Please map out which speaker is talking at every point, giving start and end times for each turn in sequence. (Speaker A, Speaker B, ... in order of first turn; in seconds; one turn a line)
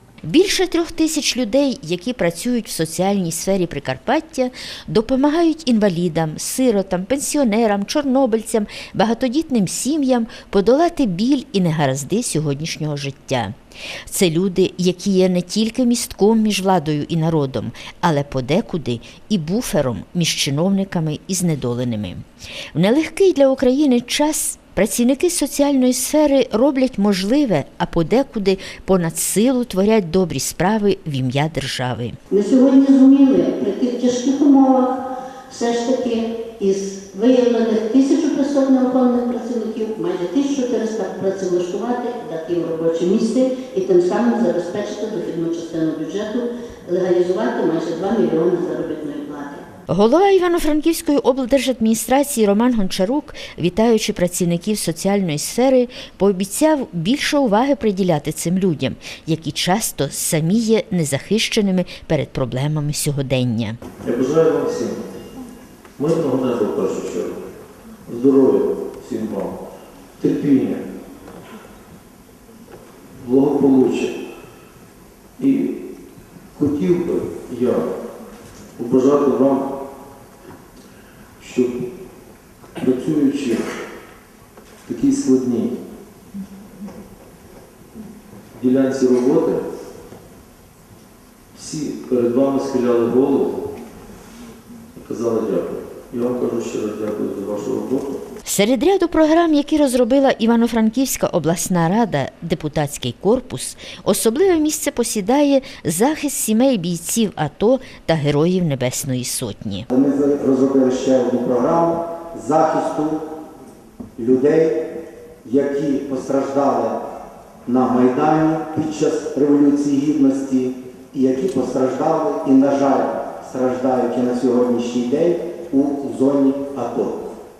Speaker A: 0.2-13.5
Speaker A: 14.1-32.1
Speaker B: 32.3-49.6
Speaker A: 49.9-63.8
Speaker C: 64.0-65.0
Speaker C: 66.0-67.4
Speaker C: 68.1-69.6
Speaker C: 70.2-70.8
Speaker C: 73.2-74.2
Speaker C: 75.4-75.7
Speaker C: 76.5-77.9
Speaker C: 78.8-79.8
Speaker C: 81.4-81.8
Speaker C: 82.8-83.6
Speaker C: 84.8-85.7
Speaker C: 88.5-89.6
Speaker C: 91.5-93.6
Speaker C: 94.9-98.2
Speaker A: 98.4-109.8
Speaker D: 109.9-113.2
Speaker D: 114.2-114.8
Speaker D: 115.4-117.0
Speaker D: 117.7-127.2